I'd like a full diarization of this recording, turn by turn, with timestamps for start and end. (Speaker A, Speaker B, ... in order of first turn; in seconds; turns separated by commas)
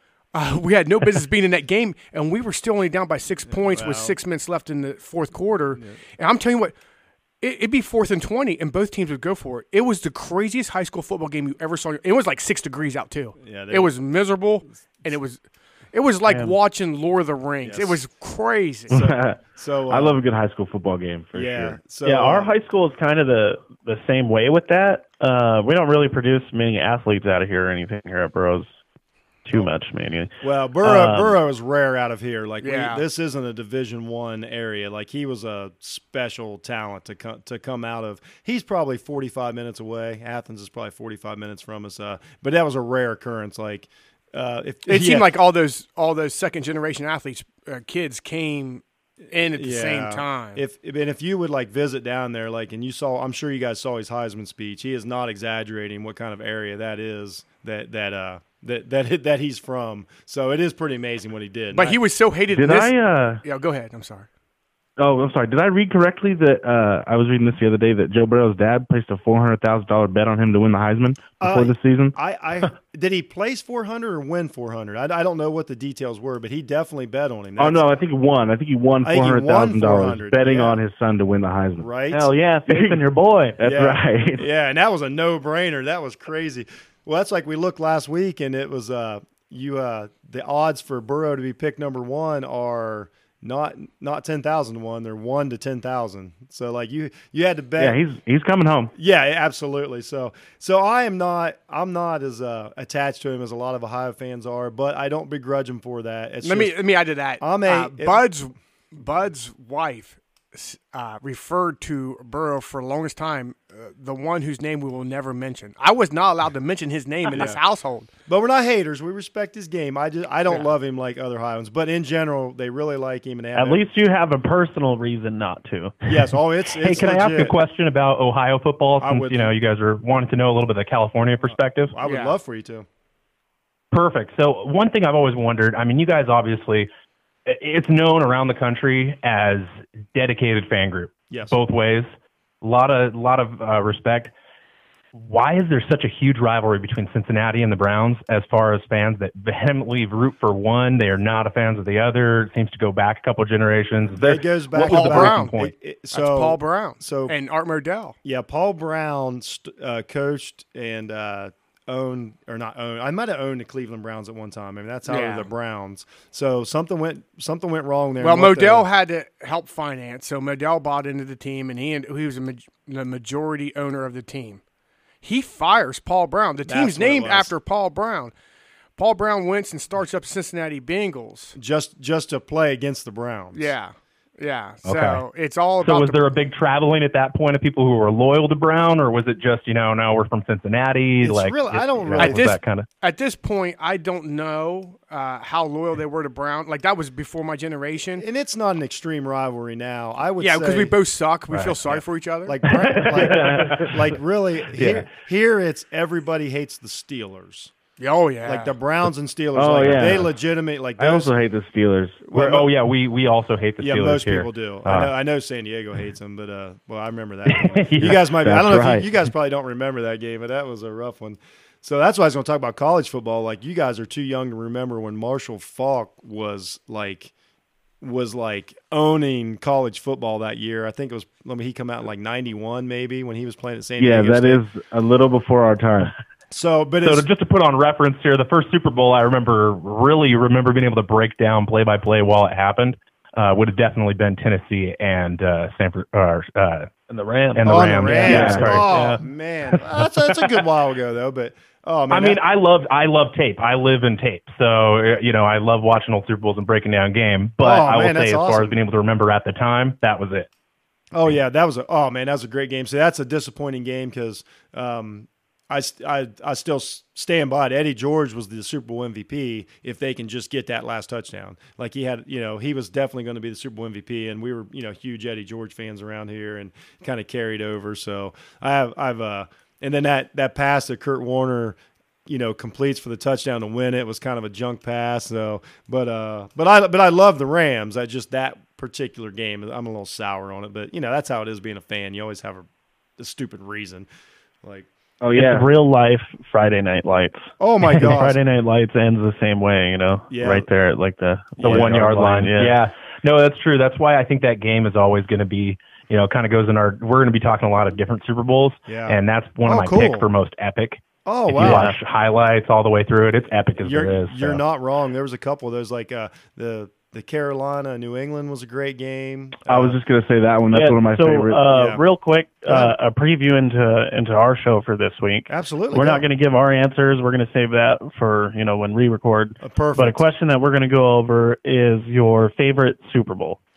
Speaker A: 0.3-6.7, Speaker B: 3.5-4.2, Speaker A: 7.4-15.4, Speaker B: 13.4-14.0, Speaker B: 14.7-15.2, Speaker A: 15.9-18.9, Speaker C: 16.2-16.5, Speaker B: 17.6-18.0, Speaker B: 18.9-20.2, Speaker D: 18.9-21.9, Speaker B: 21.3-22.5, Speaker C: 22.0-28.7, Speaker C: 29.4-30.3, Speaker B: 30.4-45.3, Speaker C: 30.8-31.4, Speaker A: 32.6-33.0, Speaker A: 44.9-50.6, Speaker B: 49.5-62.0, Speaker A: 61.7-64.3, Speaker D: 62.5-63.4, Speaker D: 65.0-72.2, Speaker B: 71.4-77.8, Speaker D: 77.6-81.9, Speaker B: 79.0-80.8, Speaker B: 81.8-82.3, Speaker C: 82.1-83.6, Speaker D: 82.7-83.1, Speaker D: 83.6-84.5, Speaker B: 83.6-98.0, Speaker D: 97.8-98.9, Speaker B: 98.9-106.8, Speaker A: 106.4-118.1, Speaker B: 107.4-108.3, Speaker B: 118.3-123.8, Speaker C: 123.5-126.0, Speaker B: 126.0-127.5, Speaker E: 126.8-131.9, Speaker B: 129.0-129.5, Speaker B: 131.5-132.8, Speaker A: 132.0-132.3, Speaker E: 133.9-136.9, Speaker E: 137.4-144.3, Speaker B: 141.3-141.6, Speaker E: 145.1-155.7, Speaker B: 154.2-157.4, Speaker A: 154.8-155.5, Speaker A: 156.1-158.2, Speaker B: 158.2-168.9, Speaker A: 165.1-165.5, Speaker A: 168.2-174.6, Speaker A: 175.2-178.3, Speaker B: 176.7-177.5, Speaker A: 179.0-181.5, Speaker B: 181.6-183.7, Speaker A: 183.5-186.2, Speaker E: 184.8-185.2, Speaker E: 185.8-192.9, Speaker B: 191.2-192.5, Speaker A: 192.2-198.2, Speaker B: 198.1-201.0, Speaker A: 200.4-202.6, Speaker B: 201.6-207.7, Speaker D: 202.8-203.9, Speaker E: 202.9-204.0, Speaker D: 204.8-205.1, Speaker A: 208.0-208.7, Speaker B: 208.4-211.3, Speaker D: 209.5-210.3, Speaker D: 211.0-212.3, Speaker B: 212.2-212.7, Speaker E: 212.3-215.1, Speaker B: 213.8-227.3, Speaker E: 217.5-218.2, Speaker D: 218.0-219.2, Speaker B: 228.0-234.6, Speaker D: 234.0-236.1, Speaker B: 236.5-237.2, Speaker E: 237.0-246.9, Speaker C: 247.1-249.2, Speaker E: 247.5-249.1, Speaker B: 247.7-252.4, Speaker D: 248.3-248.8, Speaker E: 249.7-250.7, Speaker E: 252.1-260.5, Speaker B: 257.6-258.8, Speaker B: 261.1-292.6, Speaker B: 293.2-294.1, Speaker B: 294.6-294.9, Speaker D: 295.2-295.7, Speaker C: 295.3-302.8, Speaker B: 297.6-298.4, Speaker B: 300.3-300.7, Speaker B: 301.6-302.0, Speaker E: 301.6-314.6, Speaker B: 308.9-310.2, Speaker B: 311.2-311.9, Speaker C: 311.6-312.0, Speaker B: 313.8-320.0, Speaker D: 319.7-321.6, Speaker C: 320.7-333.6, Speaker B: 321.6-322.0, Speaker B: 322.6-322.9, Speaker B: 325.5-326.2, Speaker B: 329.6-330.2